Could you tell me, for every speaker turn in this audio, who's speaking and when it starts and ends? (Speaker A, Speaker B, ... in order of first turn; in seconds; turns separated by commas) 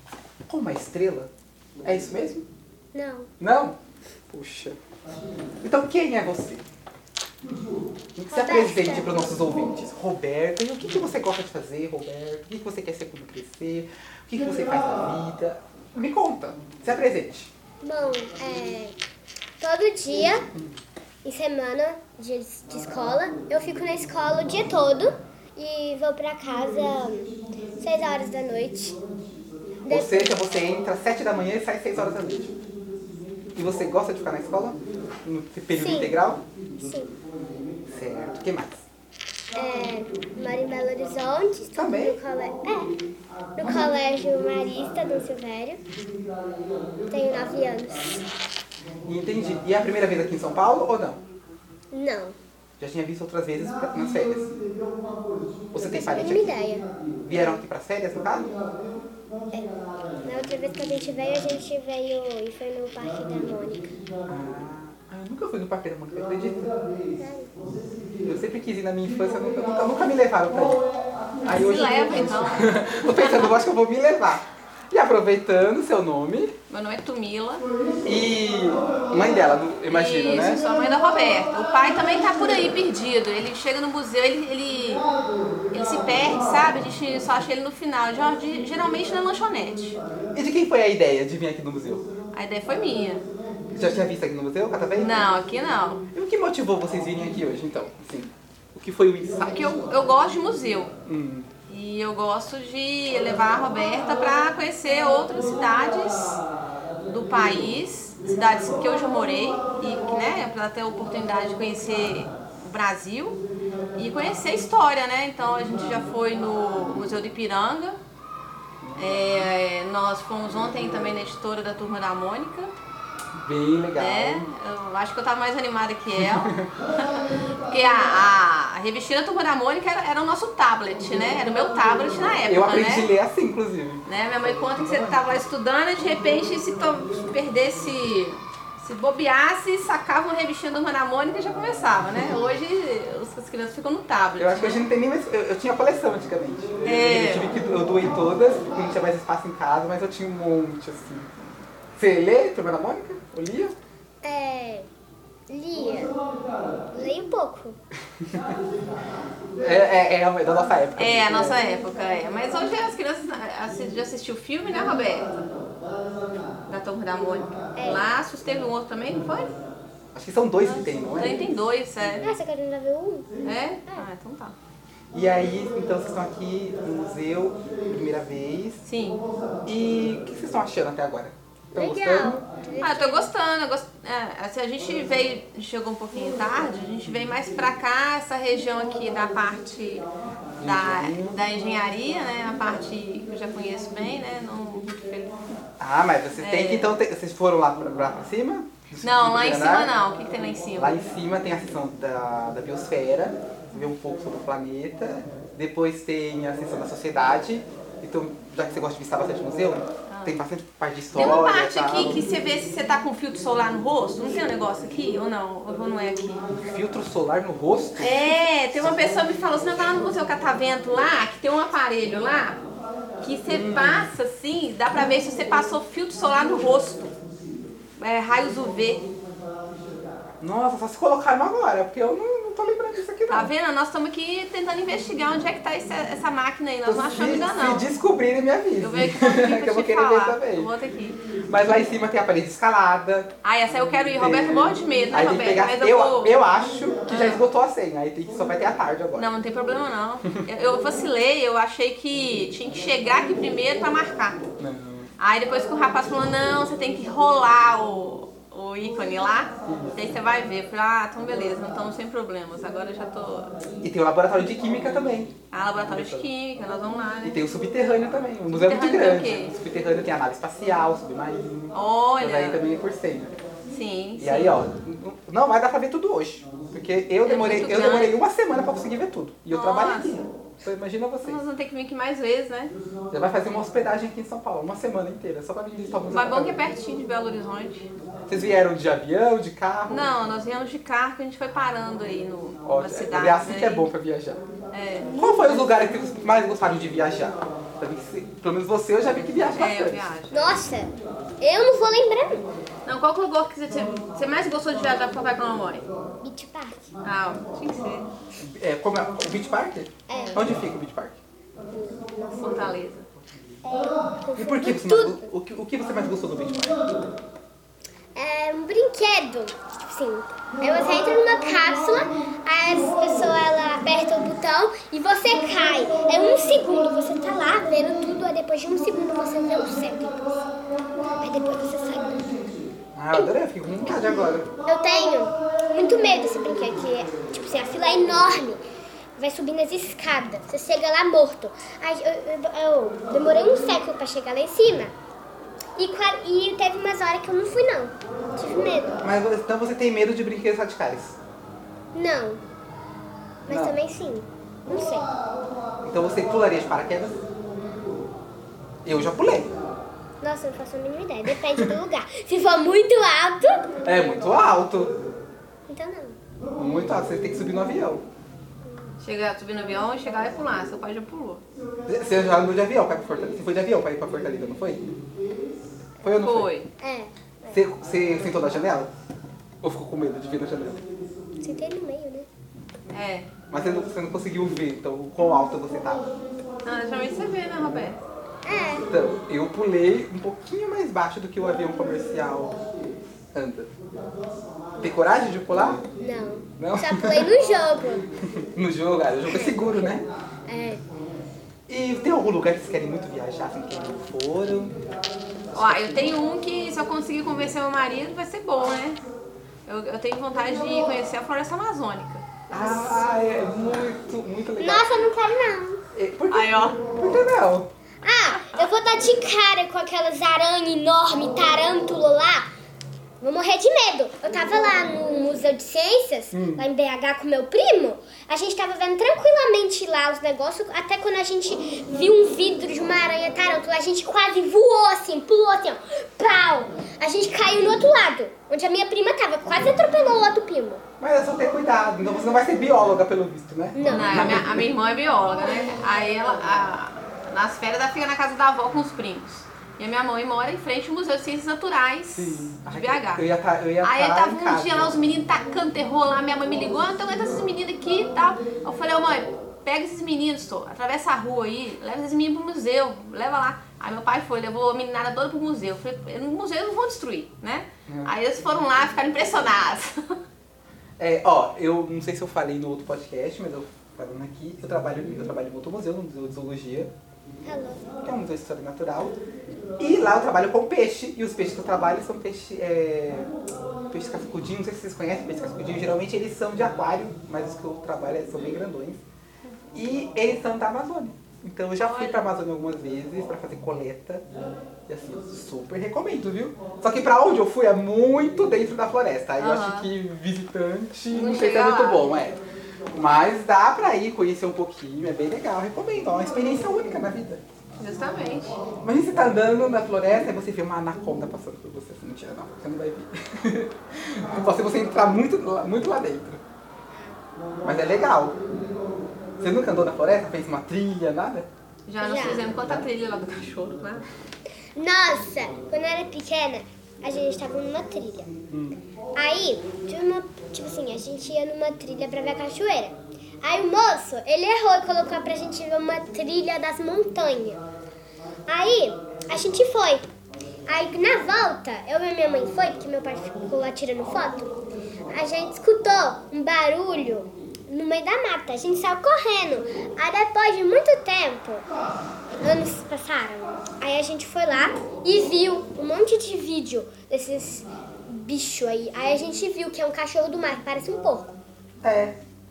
Speaker A: 0.5-1.3, Speaker A: 1.8-2.5, Speaker B: 2.9-3.3, Speaker A: 3.4-3.8, Speaker A: 4.3-4.8, Speaker A: 5.6-6.6, Speaker A: 8.1-17.5, Speaker B: 8.3-9.1, Speaker B: 17.8-18.9, Speaker B: 19.6-20.5, Speaker B: 21.2-29.0, Speaker B: 29.8-30.4, Speaker A: 29.9-32.5, Speaker A: 33.5-36.4, Speaker B: 35.7-36.1, Speaker B: 36.8-37.1, Speaker A: 37.8-38.9, Speaker B: 39.5-42.9, Speaker A: 41.7-42.2, Speaker B: 43.6-45.8, Speaker B: 47.1-48.3, Speaker A: 49.0-51.2, Speaker B: 51.9-52.4, Speaker A: 52.8-54.5, Speaker A: 55.7-56.5, Speaker B: 56.0-56.9, Speaker A: 57.2-58.5, Speaker B: 59.5-63.9, Speaker A: 64.3-66.8, Speaker B: 67.2-67.5, Speaker A: 68.2-70.8, Speaker A: 71.4-76.5, Speaker C: 71.5-73.6, Speaker C: 76.7-77.7, Speaker A: 78.0-80.7, Speaker C: 79.8-85.1, Speaker C: 85.7-90.0, Speaker A: 90.3-92.1, Speaker C: 92.3-93.2, Speaker A: 93.7-95.2, Speaker C: 95.0-96.0, Speaker A: 96.1-99.8, Speaker C: 99.4-100.9, Speaker A: 101.0-101.5, Speaker C: 101.7-106.4, Speaker C: 107.0-113.4, Speaker C: 113.9-118.0, Speaker A: 118.8-119.4, Speaker C: 119.0-122.7, Speaker A: 123.4-124.5, Speaker C: 124.0-133.1, Speaker A: 126.2-126.7, Speaker A: 132.5-135.4, Speaker C: 134.1-144.9, Speaker A: 144.4-151.3, Speaker C: 146.8-147.6, Speaker A: 151.9-153.8, Speaker B: 154.2-154.9, Speaker B: 155.5-156.1, Speaker B: 156.9-157.8, Speaker A: 158.2-158.5, Speaker A: 159.6-161.6, Speaker C: 161.0-165.4, Speaker C: 166.7-169.6, Speaker B: 167.8-168.0, Speaker A: 170.1-171.6, Speaker C: 171.1-172.3, Speaker B: 172.2-173.3, Speaker C: 173.4-174.6, Speaker A: 175.1-178.8, Speaker C: 178.8-179.2, Speaker A: 179.7-182.4, Speaker B: 181.8-183.3, Speaker C: 182.8-195.5, Speaker A: 190.6-191.4, Speaker A: 195.8-199.9, Speaker C: 196.3-197.0, Speaker C: 199.0-201.0, Speaker A: 200.8-212.2, Speaker C: 210.1-210.4, Speaker C: 211.1-216.4, Speaker A: 216.6-219.0, Speaker C: 218.0-222.6, Speaker C: 223.2-227.1, Speaker A: 223.5-224.1, Speaker C: 228.0-229.1, Speaker A: 230.4-233.5, Speaker C: 233.3-237.9, Speaker A: 236.8-240.7, Speaker C: 238.8-241.2, Speaker A: 241.4-243.3, Speaker C: 243.4-246.4, Speaker A: 244.1-249.3, Speaker C: 247.1-247.4, Speaker C: 249.1-254.4, Speaker A: 254.6-255.1, Speaker C: 255.2-263.5, Speaker A: 259.6-260.1, Speaker A: 263.8-266.3, Speaker C: 265.5-267.4, Speaker A: 267.2-273.4, Speaker C: 268.5-269.6, Speaker C: 271.7-272.6, Speaker C: 273.7-274.6, Speaker A: 274.2-281.4, Speaker C: 277.2-278.2, Speaker C: 279.5-280.2, Speaker C: 281.2-282.7, Speaker A: 283.1-286.6, Speaker C: 286.1-287.9, Speaker A: 288.3-290.1, Speaker C: 289.9-293.9, Speaker A: 292.6-294.4, Speaker C: 294.7-295.3, Speaker A: 295.1-300.1, Speaker C: 299.6-300.6, Speaker B: 300.3-302.5, Speaker C: 302.9-305.9, Speaker B: 306.2-306.9, Speaker C: 307.0-308.1, Speaker A: 308.4-311.2, Speaker B: 310.1-310.4, Speaker C: 310.1-310.4, Speaker B: 311.7-312.8, Speaker C: 312.4-313.1, Speaker B: 313.6-315.3, Speaker A: 314.4-316.9, Speaker B: 318.1-330.4, Speaker B: 331.1-332.4, Speaker A: 332.9-334.5, Speaker B: 334.6-338.6, Speaker B: 339.2-344.9, Speaker B: 345.8-349.0, Speaker A: 349.0-351.2, Speaker B: 351.9-352.4, Speaker B: 353.5-355.1, Speaker A: 353.5-353.8, Speaker A: 355.8-357.2, Speaker A: 358.8-359.5, Speaker B: 360.2-363.7, Speaker A: 363.8-364.9, Speaker B: 365.7-366.2, Speaker A: 366.6-368.1, Speaker C: 369.0-371.4, Speaker A: 371.9-374.9, Speaker A: 376.0-376.5, Speaker C: 376.1-376.7, Speaker B: 376.8-377.6, Speaker A: 377.5-378.9, Speaker A: 379.6-380.8, Speaker B: 381.4-382.3, Speaker C: 382.9-383.3, Speaker A: 383.5-386.1, Speaker C: 386.6-388.0, Speaker B: 388.4-388.9, Speaker A: 388.9-392.6, Speaker A: 393.3-393.7, Speaker A: 394.8-395.9, Speaker B: 396.0-398.1, Speaker A: 396.6-397.3, Speaker A: 398.3-400.1, Speaker B: 399.3-400.8, Speaker A: 401.7-404.8, Speaker A: 405.5-406.2, Speaker C: 405.5-409.0, Speaker C: 409.7-412.2, Speaker A: 412.5-415.1, Speaker B: 414.6-415.8, Speaker A: 415.9-417.7, Speaker C: 416.3-416.8, Speaker B: 418.0-422.5, Speaker B: 423.2-440.8, Speaker A: 426.3-426.7, Speaker A: 441.0-444.7, Speaker B: 443.8-444.2, Speaker C: 443.9-453.2, Speaker A: 452.1-455.0, Speaker C: 453.8-469.9, Speaker A: 467.9-468.1, Speaker A: 471.0-476.9, Speaker B: 477.4-477.9, Speaker A: 478.0-479.2, Speaker A: 479.8-483.3, Speaker A: 483.9-489.0, Speaker A: 489.7-494.2, Speaker C: 491.8-492.3, Speaker A: 494.9-502.4, Speaker C: 499.4-499.9, Speaker C: 501.1-502.2, Speaker A: 502.9-507.4, Speaker C: 507.8-508.6, Speaker A: 508.8-516.4, Speaker A: 517.6-518.4, Speaker A: 519.4-521.5, Speaker C: 521.9-524.1, Speaker B: 522.0-522.5, Speaker A: 522.6-522.8, Speaker B: 524.8-528.4, Speaker A: 528.5-528.8, Speaker B: 529.1-537.6, Speaker B: 538.5-540.0, Speaker B: 540.7-544.5, Speaker B: 545.1-551.7, Speaker B: 552.4-561.4, Speaker A: 561.8-562.1